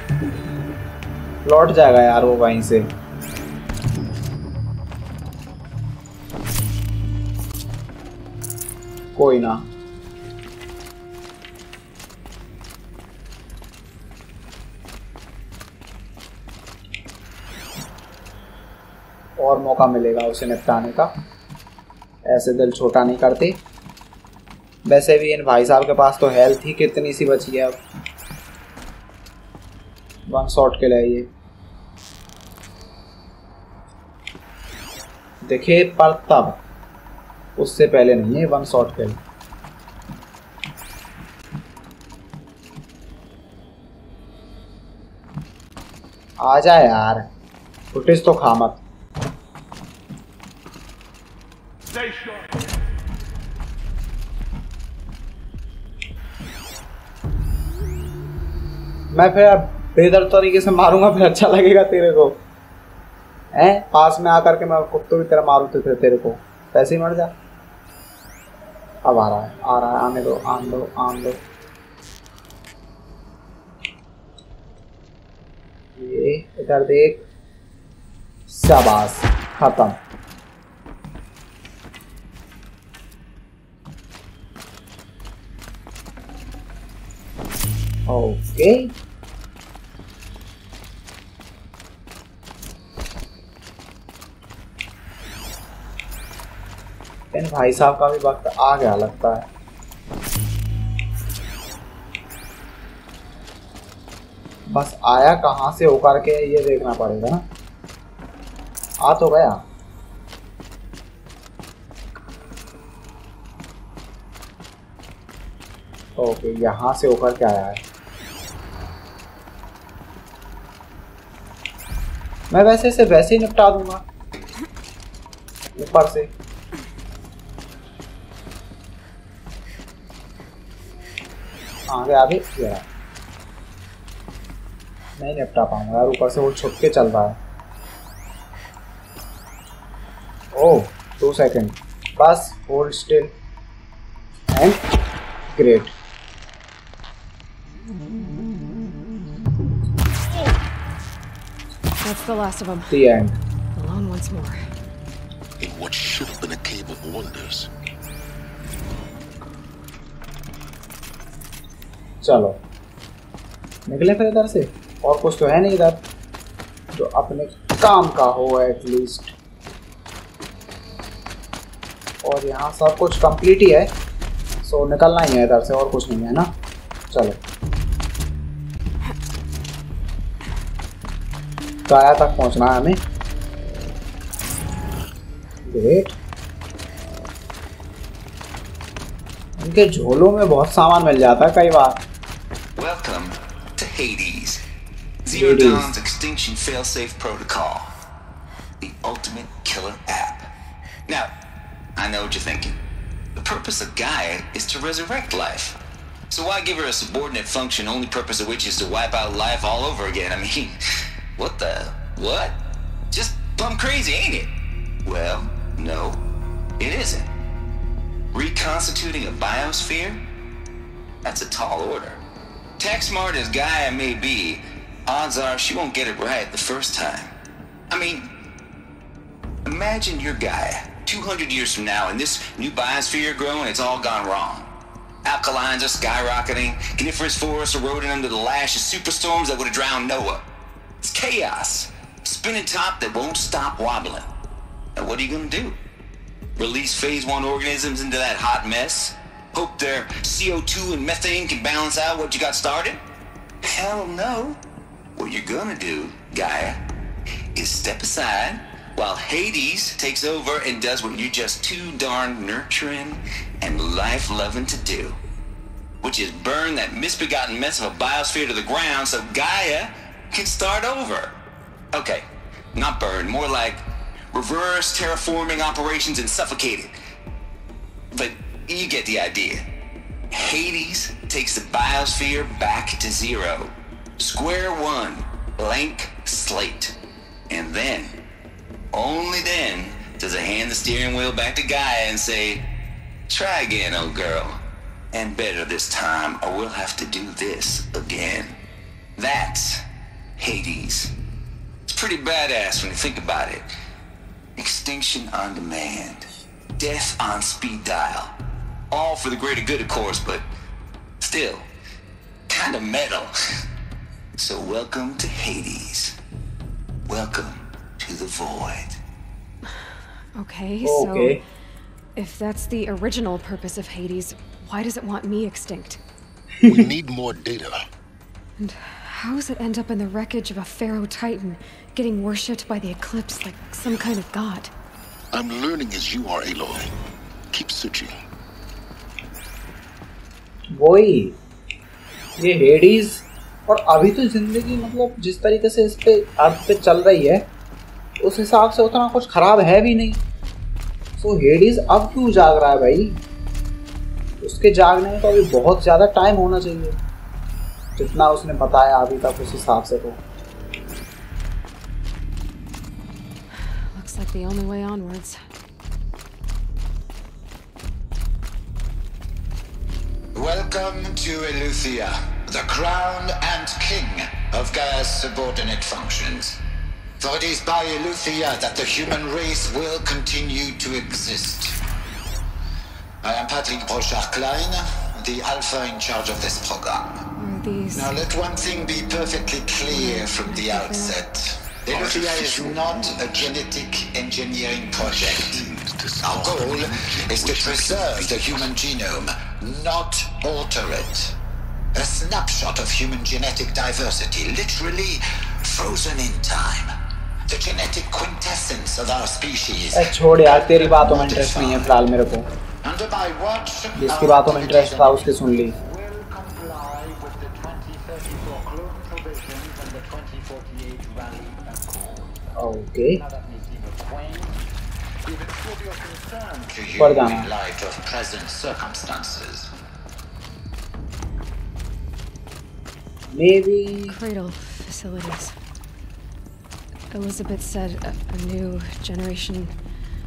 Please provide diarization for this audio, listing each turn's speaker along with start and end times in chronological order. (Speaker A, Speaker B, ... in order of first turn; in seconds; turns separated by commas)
Speaker A: 1.4-2.9, Speaker A: 9.2-9.7, Speaker A: 19.4-21.1, Speaker A: 22.3-23.6, Speaker A: 24.9-27.8, Speaker A: 30.3-31.3, Speaker A: 35.4-36.6, Speaker A: 37.6-39.2, Speaker A: 46.4-47.3, Speaker A: 47.9-48.8, Speaker A: 59.1-62.4, Speaker A: 63.5-67.3, Speaker A: 69.0-71.4, Speaker A: 76.0-77.2, Speaker A: 78.5-80.0, Speaker A: 88.1-88.9, Speaker A: 97.3-99.5, Speaker A: 104.7-107.5, Speaker A: 109.0-109.6, Speaker A: 116.2-117.8, Speaker A: 122.5-124.0, Speaker A: 125.8-126.3, Speaker A: 131.9-132.8, Speaker A: 135.2-137.4, Speaker A: 140.5-143.3, Speaker A: 144.5-144.8, Speaker A: 145.5-145.9, Speaker B: 152.0-153.0, Speaker A: 152.9-153.4, Speaker B: 153.7-154.6, Speaker C: 155.6-157.7, Speaker A: 162.2-162.6, Speaker A: 163.9-166.0, Speaker A: 166.9-169.3, Speaker A: 172.2-173.9, Speaker A: 174.6-176.5, Speaker A: 177.1-177.4, Speaker A: 181.9-183.0, Speaker A: 185.6-186.1, Speaker A: 189.6-192.0, Speaker D: 192.8-194.6, Speaker D: 195.2-197.9, Speaker A: 195.3-195.9, Speaker D: 198.8-200.5, Speaker D: 202.0-202.8, Speaker D: 203.4-205.8, Speaker D: 206.3-210.8, Speaker D: 211.4-212.6, Speaker D: 213.1-214.5, Speaker D: 215.1-216.2, Speaker D: 216.8-217.3, Speaker D: 218.3-220.2, Speaker D: 221.2-222.2, Speaker D: 222.8-227.3, Speaker D: 227.9-228.3, Speaker D: 229.6-234.7, Speaker D: 235.2-240.4, Speaker D: 241.0-244.3, Speaker D: 244.9-245.8, Speaker D: 246.6-253.0, Speaker D: 253.6-254.6, Speaker D: 255.2-256.8, Speaker D: 257.6-265.2, Speaker D: 266.0-271.3, Speaker D: 271.9-277.0, Speaker D: 278.1-279.6, Speaker D: 280.3-286.9, Speaker D: 287.5-288.1, Speaker D: 288.9-292.6, Speaker D: 293.3-294.6, Speaker D: 295.1-298.6, Speaker D: 299.2-299.8, Speaker D: 300.4-301.1, Speaker D: 301.9-303.7, Speaker D: 304.6-306.3, Speaker D: 306.8-308.3, Speaker D: 308.9-310.4, Speaker D: 311.2-311.7, Speaker D: 312.5-313.3, Speaker D: 314.4-316.1, Speaker D: 317.1-319.0, Speaker B: 320.4-321.4, Speaker A: 320.8-321.4, Speaker B: 322.1-326.0, Speaker C: 326.6-327.8, Speaker B: 328.6-334.7, Speaker C: 335.3-336.9, Speaker C: 337.5-338.2, Speaker A: 340.7-341.4, Speaker A: 342.4-347.5, Speaker A: 348.2-350.2, Speaker A: 351.2-353.2, Speaker A: 354.4-357.0, Speaker A: 358.0-360.2, Speaker B: 363.9-365.4, Speaker E: 370.4-376.6, Speaker E: 377.2-381.8, Speaker E: 383.2-387.2, Speaker B: 387.4-388.1, Speaker E: 387.9-395.6, Speaker B: 389.9-391.3, Speaker C: 391.9-393.6, Speaker C: 395.0-398.7, Speaker E: 396.2-401.4, Speaker E: 401.9-406.9, Speaker E: 407.5-411.9, Speaker A: 409.9-412.5, Speaker F: 410.6-411.1, Speaker E: 412.8-415.3, Speaker A: 414.0-415.8, Speaker F: 414.1-415.1, Speaker F: 415.6-424.6, Speaker A: 422.6-423.2, Speaker F: 425.2-426.9, Speaker E: 426.7-429.7, Speaker A: 427.0-427.5, Speaker A: 433.3-434.1, Speaker B: 434.1-435.5, Speaker B: 437.1-439.7